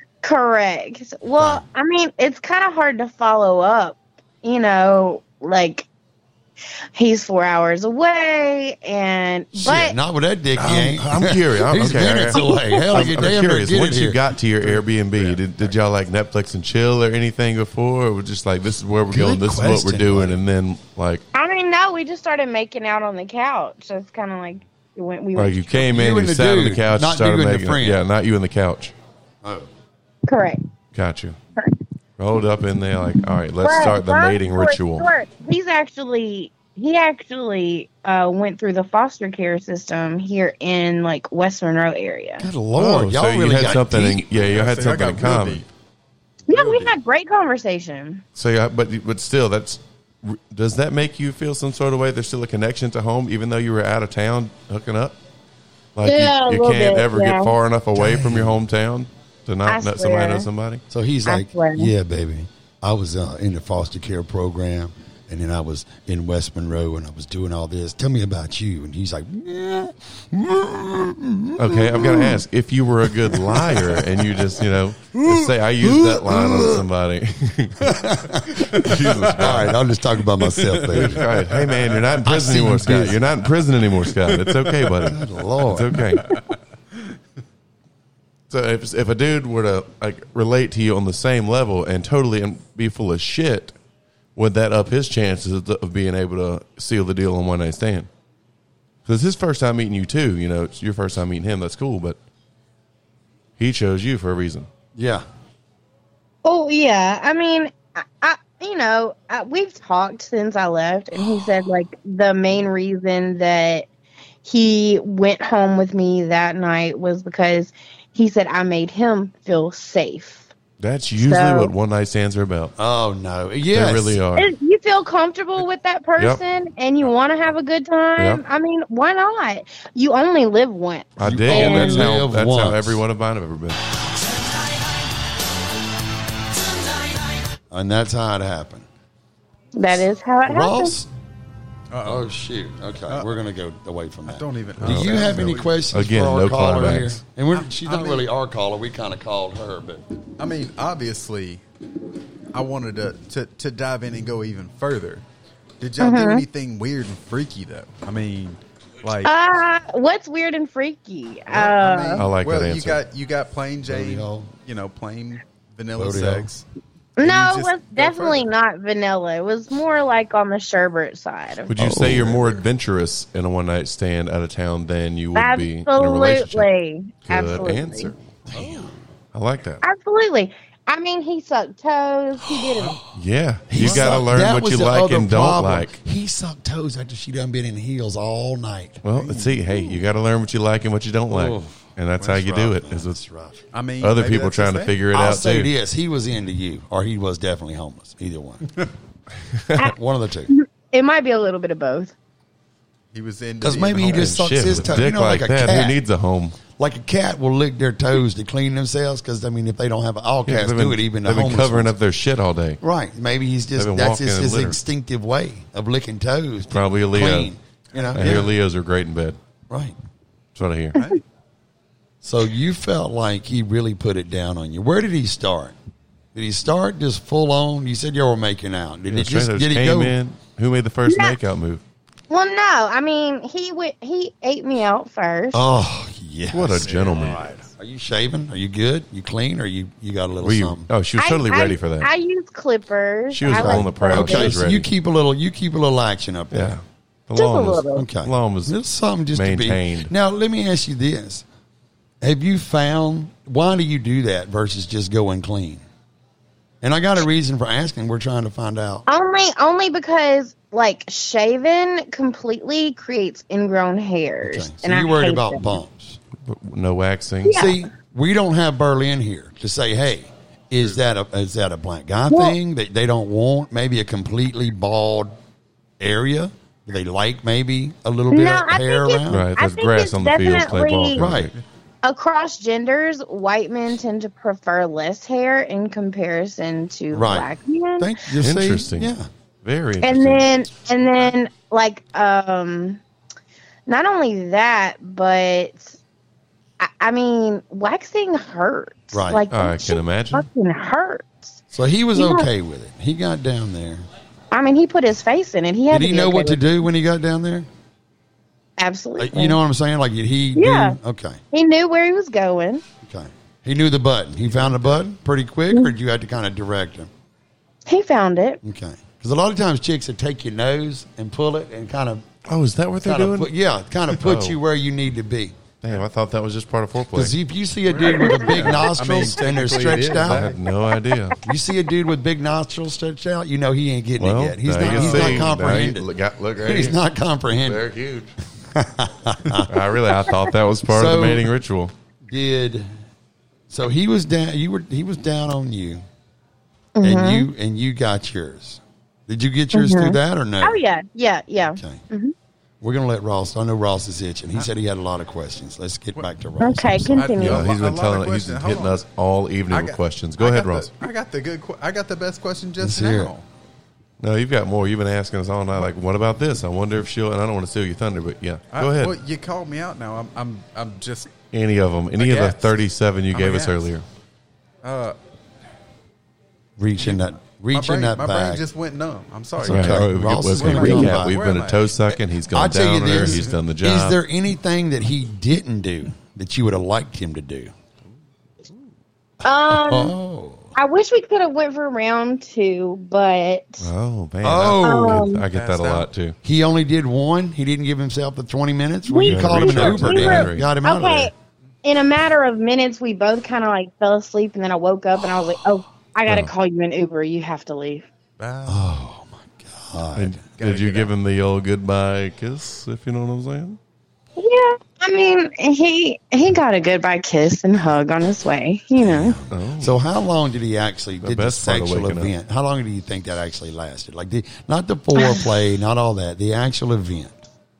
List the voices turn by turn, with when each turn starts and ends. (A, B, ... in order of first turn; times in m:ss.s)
0:00.2-0:05.9 A
0:01.4-0:01.6 B
0:06.9-0:10.0 A
0:09.5-0:14.2 B
0:10.6-0:21.2 C
0:12.3-0:13.1 A
0:14.6-0:15.4 D
0:19.1-0:20.4 B
0:21.3-0:25.8 A
0:25.4-0:28.9 C
0:25.8-0:28.0 B
0:30.3-0:30.6 A
0:30.9-0:31.4 C
0:32.2-0:35.1 C
0:33.6-0:42.5 A
0:42.4-0:44.4 B
0:42.8-0:45.6 C
0:44.4-0:45.7 D
0:46.5-0:48.2 A
0:46.5-0:46.8 B
0:48.4-0:55.2 C
0:55.9-1:00.8 C
0:56.0-0:57.5 A
0:57.9-0:58.6 B
0:59.7-1:00.5 A
1:00.9-1:12.4 B
1:01.2-1:01.9 A
1:11.6-1:17.9 C
1:13.2-1:14.5 B
1:15.1-1:16.9 B
1:17.8-1:21.2 B
1:18.8-1:19.8 C
1:18.8-1:19.5 D
1:20.5-1:22.0 D
1:20.9-1:26.3 C
1:22.2-1:23.3 B
1:25.0-1:25.9 B
1:26.2-1:26.5 D
1:28.5-1:33.7 C
1:34.4-1:38.1 C
1:39.0-1:42.2 C
1:43.6-1:44.6 C
1:45.0-1:45.2 B
1:46.4-1:53.9 A
1:54.4-2:00.5 A
2:00.8-2:02.7 C
2:01.2-2:01.7 A
2:02.8-2:04.2 B
2:03.7-2:04.5 C
2:04.4-2:12.1 A
2:11.2-2:13.8 C
2:11.2-2:13.0 B
2:17.7-2:18.8 B
2:19.8-2:20.9 A
2:20.5-2:21.1 B
2:21.9-2:22.3 D
2:22.0-2:30.0 B
2:24.3-2:25.8 D
2:24.8-2:27.2 C
2:27.5-2:28.3 D
2:30.4-2:31.6 D
2:32.5-2:35.2 D
2:35.8-2:39.3 D
2:36.0-2:36.4 A
2:39.2-2:42.2 A
2:41.5-2:46.6 D
2:42.2-2:43.0 C
2:43.9-2:44.5 B
2:45.9-2:46.5 B
2:47.2-2:51.7 A
2:47.2-2:48.4 D
2:51.7-2:56.7 C
2:51.8-2:52.6 B
2:55.3-2:58.1 A
2:57.2-2:58.3 C
2:58.5-2:58.9 B
2:59.3-2:59.8 C
2:59.8-3:03.0 A
3:02.4-3:03.0 B
3:03.1-3:05.9 C
3:03.7-3:09.0 B
3:09.0-3:13.2 C
3:09.2-3:10.0 D
3:11.3-3:11.8 B
3:12.2-3:12.5 D
3:12.5-3:13.6 B
3:13.7-3:15.0 D
3:14.0-3:15.7 C
3:15.1-3:18.8 B
3:19.8-3:20.5 B
3:20.5-3:22.1 A
3:23.1-3:25.1 D
3:23.6-3:26.0 B
3:24.0-3:26.6 C
3:26.7-3:31.9 B
3:30.4-3:32.8 C
3:32.8-3:38.5 B
3:33.8-3:34.8 C
3:36.7-3:37.5 C
3:38.0-3:38.4 D
3:38.1-3:39.4 C
3:39.7-3:39.9 B
3:40.5-3:41.0 C
3:40.9-3:41.2 D
3:42.2-3:45.7 B
3:46.3-3:50.2 B
3:49.1-3:51.8 C
3:51.0-3:51.4 A
3:52.3-3:55.6 A
3:55.5-4:00.9 B
3:56.5-3:57.6 C
4:00.4-4:02.1 C
4:01.2-4:04.6 A
4:03.3-4:04.9 C
4:03.5-4:06.8 B
4:06.5-4:08.8 C
4:07.3-4:08.0 A
4:07.9-4:11.4 B
4:09.3-4:10.1 C
4:12.2-4:15.8 B
4:16.8-4:19.0 B
4:19.1-4:25.8 A
4:24.4-4:26.2 B
4:26.4-4:27.6 C
4:27.4-4:27.8 A
4:27.5-4:35.4 B
4:32.3-4:32.6 A
4:36.0-4:39.5 B
4:38.3-4:41.2 A
4:39.3-4:41.5 C
4:41.2-4:41.5 B
4:42.0-4:48.1 A
4:47.1-4:49.3 B
4:48.4-4:50.5 C
4:50.0-4:53.0 A
4:53.9-4:56.0 A
4:56.8-5:01.5 A
4:59.1-4:59.4 B
4:59.5-5:00.4 C
5:01.7-5:04.0 B
5:02.1-5:02.5 A
5:04.5-5:06.8 A
5:05.9-5:07.7 B
5:08.8-5:09.6 A
5:09.2-5:11.4 B
5:10.5-5:11.0 A
5:11.5-5:12.8 A
5:13.0-5:17.1 B
5:14.5-5:14.8 D
5:17.9-5:18.6 A
5:18.6-5:22.2 B
5:22.4-5:23.5 C
5:23.0-5:25.6 B
5:24.1-5:24.6 C
5:25.8-5:27.3 C
5:27.1-5:30.5 B
5:27.9-5:30.6 D
5:28.2-5:28.5 A
5:30.0-5:31.4 C
5:31.4-5:36.1 B
5:34.2-5:37.0 C
5:34.8-5:35.6 D
5:36.6-5:37.8 B
5:37.6-5:38.3 C
5:38.7-5:39.7 B
5:39.7-5:41.9 C
5:40.9-5:41.5 B
5:42.2-5:42.9 B
5:43.7-5:46.0 B
5:47.0-5:47.5 A
5:47.0-5:50.8 B
5:49.7-5:52.3 A
5:51.7-5:52.0 B
5:52.8-5:57.3 B
5:56.6-5:57.7 A
5:57.1-5:59.0 D
5:57.4-6:00.9 C
5:59.7-6:03.4 D
6:02.8-6:03.3 B
6:04.2-6:09.2 C
6:08.7-6:11.3 D
6:11.5-6:14.0 C
6:12.2-6:12.7 D
6:13.3-6:13.9 D
6:14.8-6:15.2 D
6:16.8-6:18.6 B
6:17.7-6:21.9 D
6:19.6-6:21.4 B
6:19.6-6:24.2 C
6:22.5-6:27.7 B
6:23.1-6:23.5 D
6:29.4-6:30.2 A
6:29.7-6:30.7 B
6:30.8-6:33.9 A
6:33.8-6:36.4 C
6:34.4-6:35.3 B
6:34.8-6:35.4 A
6:35.5-6:36.1 D
6:36.4-6:41.3 B
6:39.1-6:41.3 A
6:39.2-6:40.7 C
6:41.8-6:48.0 A
6:48.4-6:48.9 D
6:48.6-6:50.4 B
6:50.1-6:53.8 C
6:50.6-6:51.1 D
6:54.4-6:59.4 A
6:59.0-7:07.4 B
6:59.5-7:00.0 C
7:01.2-7:02.3 C
7:05.2-7:05.5 A